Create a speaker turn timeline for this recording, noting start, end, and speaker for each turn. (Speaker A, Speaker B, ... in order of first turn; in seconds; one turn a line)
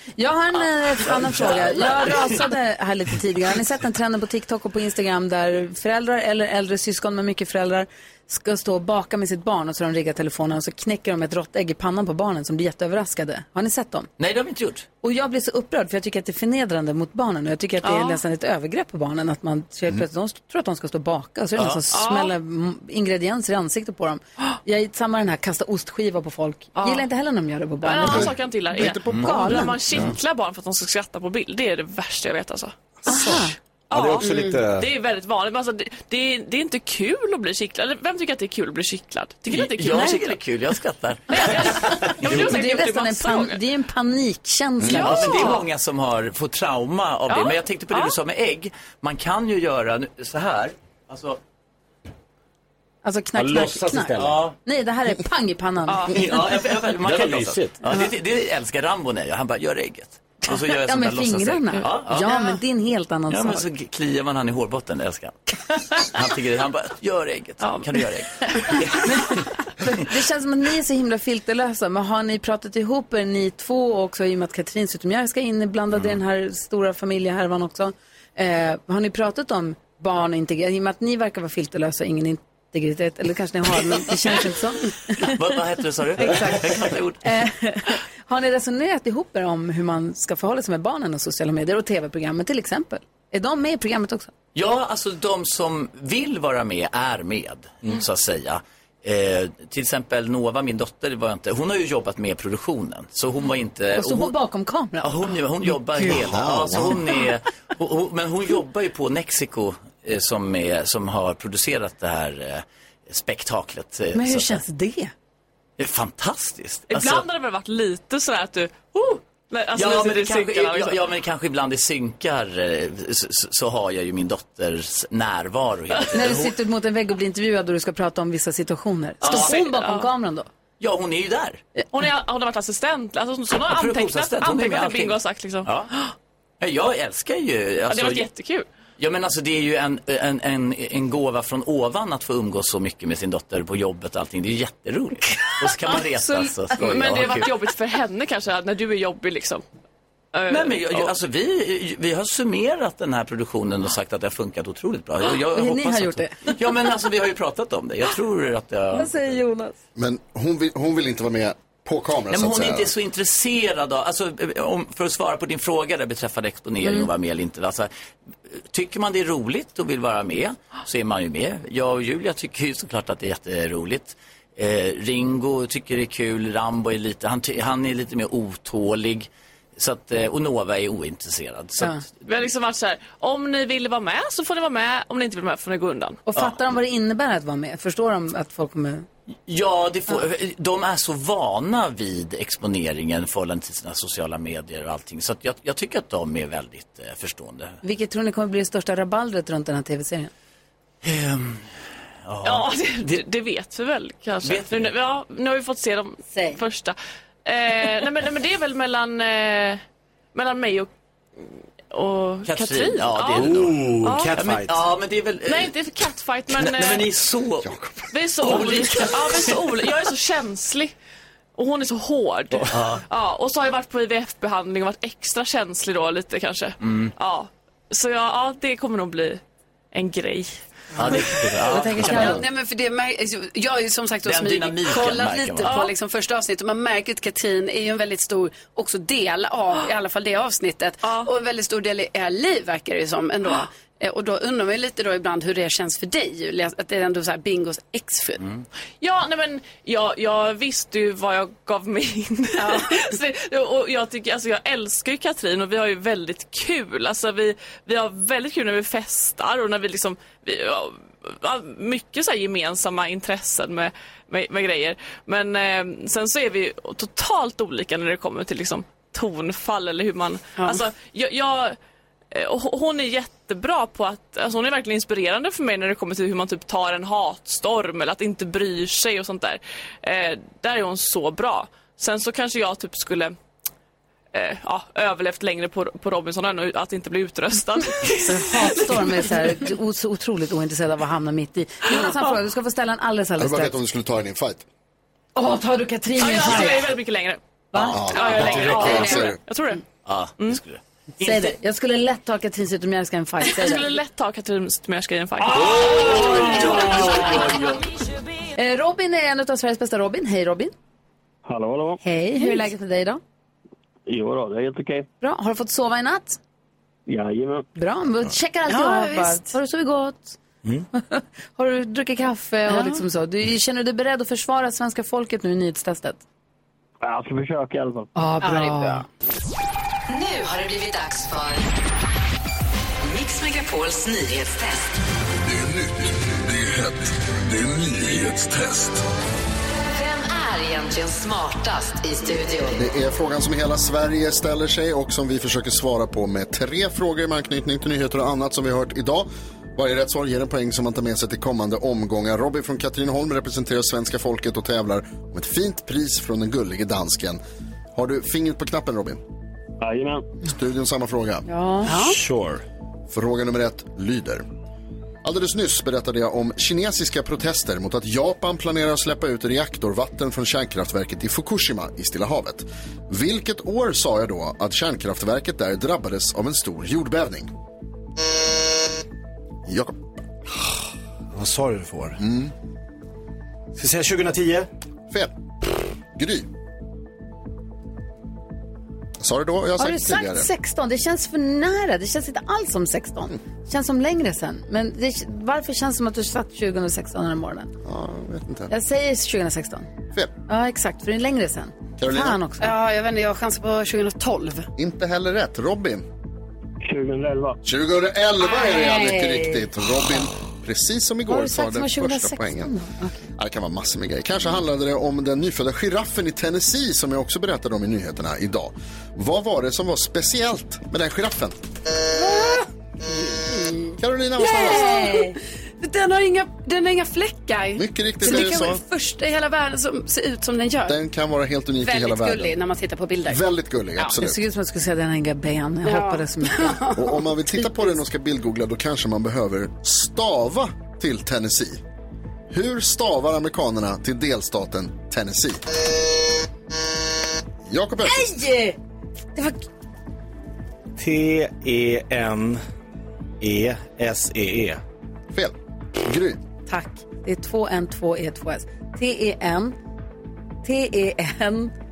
Speaker A: 0.2-14.1
Speaker B: 1.1-2.4
Speaker B: 14.2-14.8
Speaker A: 15.0-29.7
Speaker C: 17.9-18.1
Speaker B: 21.6-21.8
Speaker C: 21.9-22.3
Speaker C: 27.8-32.7
Speaker D: 28.0-30.1
Speaker B: 29.1-29.8
Speaker A: 33.1-33.5
Speaker C: 33.9-40.4
Speaker E: 33.9-34.9
Speaker F: 34.2-34.6
Speaker B: 39.5-42.4
Speaker C: 41.3-43.6
Speaker A: 42.2-45.6
Speaker B: 44.8-51.4
Speaker C: 44.9-45.6
Speaker C: 47.3-48.1
Speaker A: 53.0-56.2
Speaker E: 53.4-54.5
Speaker B: 54.2-54.5
Speaker B: 56.1-62.4
Speaker E: 57.0-57.8
Speaker A: 60.5-63.7
Speaker B: 63.3-69.2
Speaker A: 69.0-85.3
Speaker B: 85.2-87.3
Speaker A: 86.2-94.3
Speaker B: 94.5-104.3
Speaker A: 103.9-105.4
Speaker B: 105.0-114.6
Speaker D: 106.2-106.9
Speaker A: 114.1-115.1
Speaker B: 115.8-117.3
Speaker C: 116.9-121.0
Speaker B: 119.7-126.5
Speaker A: 126.1-130.5
Speaker B: 129.2-129.7
Speaker C: 129.2-130.1
Speaker B: 130.8-131.6
Speaker C: 131.9-135.7
Speaker B: 133.6-135.9
Speaker B: 136.6-138.3
Speaker C: 137.9-138.7
Speaker B: 139.0-147.6
Speaker A: 146.1-146.5
Speaker C: 146.7-149.6
Speaker C: 150.3-151.1
Speaker B: 150.5-159.3
Speaker A: 155.5-156.5
Speaker A: 158.9-159.7
Speaker D: 159.9-162.9
Speaker B: 162.3-167.9
Speaker B: 168.6-182.0
Speaker C: 182.2-186.2
Speaker A: 186.3-189.1
Speaker B: 189.5-197.8
Speaker A: 197.8-200.3
Speaker B: 201.0-201.7
Speaker B: 202.2-203.2
Speaker C: 202.4-209.8
Speaker B: 204.4-204.9
Speaker A: 206.3-206.6
Speaker C: 210.3-214.3
Speaker B: 212.4-215.9
Speaker E: 213.3-214.8
Speaker C: 215.5-217.1
Speaker B: 216.5-217.8
Speaker D: 217.6-217.9
Speaker C: 218.1-220.9
Speaker B: 218.4-219.7
Speaker C: 221.6-230.6
Speaker B: 222.7-223.0
Speaker B: 226.8-227.1
Speaker B: 230.9-232.4
Speaker E: 231.1-232.2
Speaker A: 231.7-232.4
Speaker F: 232.0-248.4
Speaker B: 234.2-235.8
Speaker C: 235.6-235.9
Speaker C: 241.0-241.3
Speaker C: 249.0-271.8
Speaker F: 252.6-253.1
Speaker F: 270.6-270.8
Speaker C: 272.3-283.3
Speaker C: 284.3-289.4
Speaker A: 288.2-293.8
Speaker D: 293.4-294.6
Speaker A: 295.4-296.9
Speaker C: 296.2-297.4
Speaker A: 297.7-298.2
Speaker D: 297.8-299.4
Speaker C: 298.0-299.8
Speaker B: 300.0-301.5
Speaker A: 301.2-303.9
Speaker C: 303.4-307.4
Speaker B: 305.4-307.9
Speaker E: 305.6-307.1
Speaker A: 308.6-310.7
Speaker G: 311.4-312.0
Speaker A: 312.0-313.2
Speaker G: 314.1-315.1
Speaker A: 315.2-316.4
Speaker G: 317.1-317.6
Speaker A: 317.7-320.4
Speaker F: 318.7-319.5
Speaker A: 320.9-326.2
Speaker F: 322.7-323.0
Speaker G: 327.0-328.1
Speaker A: 328.1-329.0
Speaker F: 328.4-329.0
Speaker H: 330.1-331.6
Speaker H: 333.0-334.9
Speaker I: 335.4-339.0
Speaker H: 339.9-342.8
Speaker D: 342.7-357.4
Speaker D: 357.9-359.2
Speaker G: 359.8-360.3
Speaker D: 360.4-361.4
Speaker A: 361.5-362.1
Speaker F: 361.9-362.1
Speaker E: 361.9-362.6
Speaker D: 363.1-364.4
Speaker D: 365.2-377.5
Speaker D: 379.6-380.1
Speaker E: 381.3-382.2
Speaker D: 382.2-382.5
Speaker E: 383.8-384.7
Speaker D: 386.1-386.5
Speaker D: 389.2-390.5
Speaker A: 389.8-397.7
Speaker D: 397.8-398.7
Speaker A: 398.7-399.9
Speaker A: 400.5-402.7
Speaker D: 402.0-402.4
Speaker F: 402.6-404.7
Speaker D: 404.8-406.0
Speaker G: 406.8-407.6
Speaker D: 407.6-412.7
Speaker A: 408.4-409.6
Speaker A: 411.3-413.2
Speaker D: 413.4-421.6
Speaker F: 422.1-431.0
Speaker D: 424.0-425.1
Speaker A: 424.4-425.4
Speaker D: 427.8-428.8
Speaker D: 430.9-432.6
Speaker F: 431.8-433.4
Speaker D: 433.2-434.4
Speaker A: 434.0-436.8
Speaker F: 435.8-437.8
Speaker D: 436.9-441.8
Speaker D: 442.5-445.6
Speaker D: 447.7-448.4
Speaker A: 448.1-448.8
Speaker A: 449.3-449.6
Speaker E: 451.0-452.6
Speaker E: 453.4-454.8
Speaker D: 455.3-456.4
Speaker A: 456.7-459.8
Speaker A: 460.6-461.7